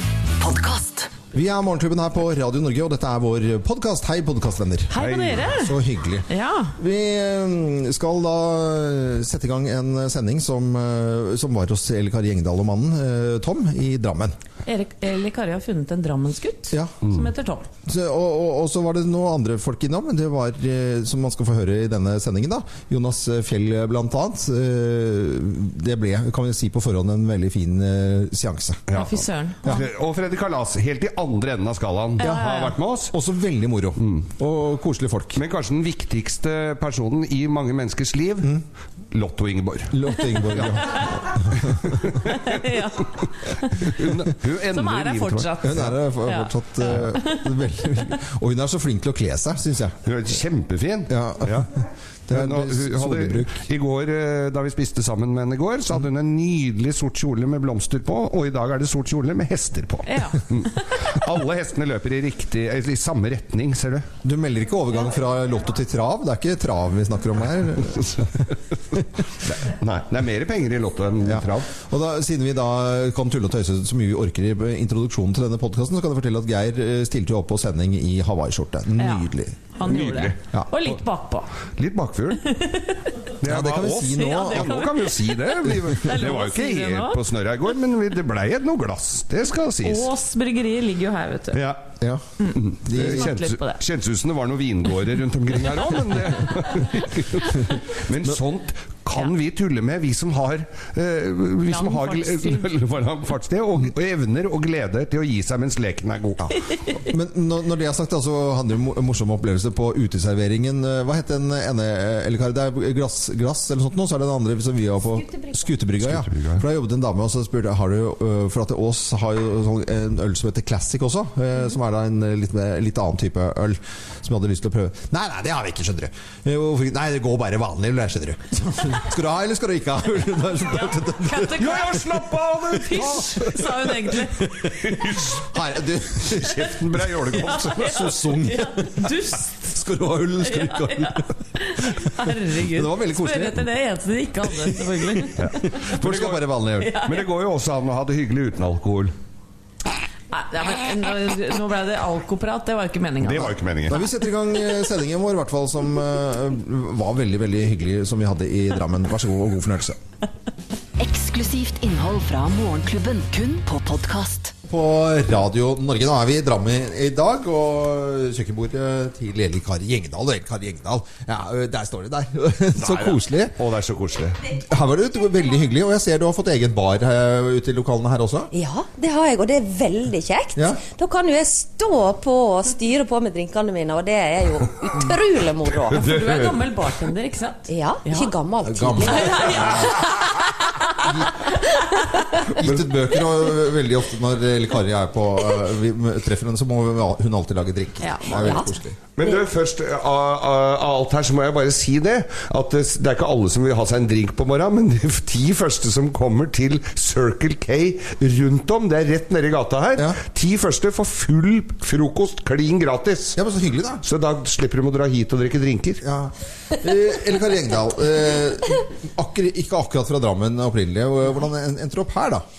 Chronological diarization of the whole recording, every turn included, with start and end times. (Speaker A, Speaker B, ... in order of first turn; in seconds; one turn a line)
Speaker A: 0.4-1.1
Speaker B: 1.3-14.3
Speaker C: 4.9-5.7
Speaker D: 5.0-5.4
Speaker C: 6.3-6.7
Speaker C: 14.7-17.7
Speaker B: 17.9-28.8
Speaker D: 28.9-33.1
Speaker C: 28.9-29.8
Speaker B: 32.2-32.6
Speaker C: 32.2-32.7
Speaker B: 33.1-35.4
Speaker D: 34.0-34.2
Speaker D: 35.4-38.5
Speaker D: 39.1-40.7
Speaker B: 39.9-41.9
Speaker D: 41.5-42.4
Speaker C: 42.4-43.9
Speaker D: 43.8-45.5
Speaker C: 44.7-46.5
Speaker B: 45.6-50.0
Speaker C: 47.2-47.4
Speaker D: 50.0-51.7
Speaker B: 51.1-51.6
Speaker B: 52.3-53.6
Speaker D: 52.3-64.1
Speaker C: 60.0-60.4
Speaker B: 64.2-68.3
Speaker D: 69.4-71.7
Speaker B: 71.2-79.6
Speaker C: 79.0-81.5
Speaker D: 79.8-80.4
Speaker D: 81.8-82.4
Speaker C: 82.4-83.0
Speaker D: 83.4-90.1
Speaker B: 83.4-84.8
Speaker C: 84.0-87.2
Speaker C: 89.8-91.6
Speaker D: 91.5-91.8
Speaker C: 92.4-93.8
Speaker D: 92.5-106.5
Speaker B: 92.8-93.3
Speaker C: 101.7-102.7
Speaker B: 107.0-131.9
Speaker D: 116.0-116.6
Speaker C: 131.2-134.5
Speaker D: 131.6-133.5
Speaker D: 134.7-135.4
Speaker B: 135.5-139.1
Speaker D: 136.3-138.0
Speaker C: 137.4-139.7
Speaker B: 139.6-143.7
Speaker C: 140.4-145.6
Speaker B: 144.6-146.9
Speaker D: 145.4-149.1
Speaker C: 146.8-147.2
Speaker C: 150.3-153.6
Speaker D: 153.2-154.0
Speaker B: 153.9-160.0
Speaker A: 161.0-164.5
Speaker B: 164.7-173.6
Speaker D: 172.8-174.4
Speaker B: 174.5-178.5
Speaker E: 178.5-186.0
Speaker B: 180.5-180.8
Speaker D: 185.9-186.6
Speaker C: 185.9-188.3
Speaker E: 187.7-189.9
Speaker B: 188.6-189.9
Speaker B: 191.0-191.3
Speaker B: 192.6-199.0
Speaker D: 192.6-192.8
Speaker C: 198.0-198.7
Speaker E: 198.3-198.6
Speaker D: 199.2-213.4
Speaker B: 213.3-214.0
Speaker D: 214.0-216.0
Speaker B: 216.0-222.4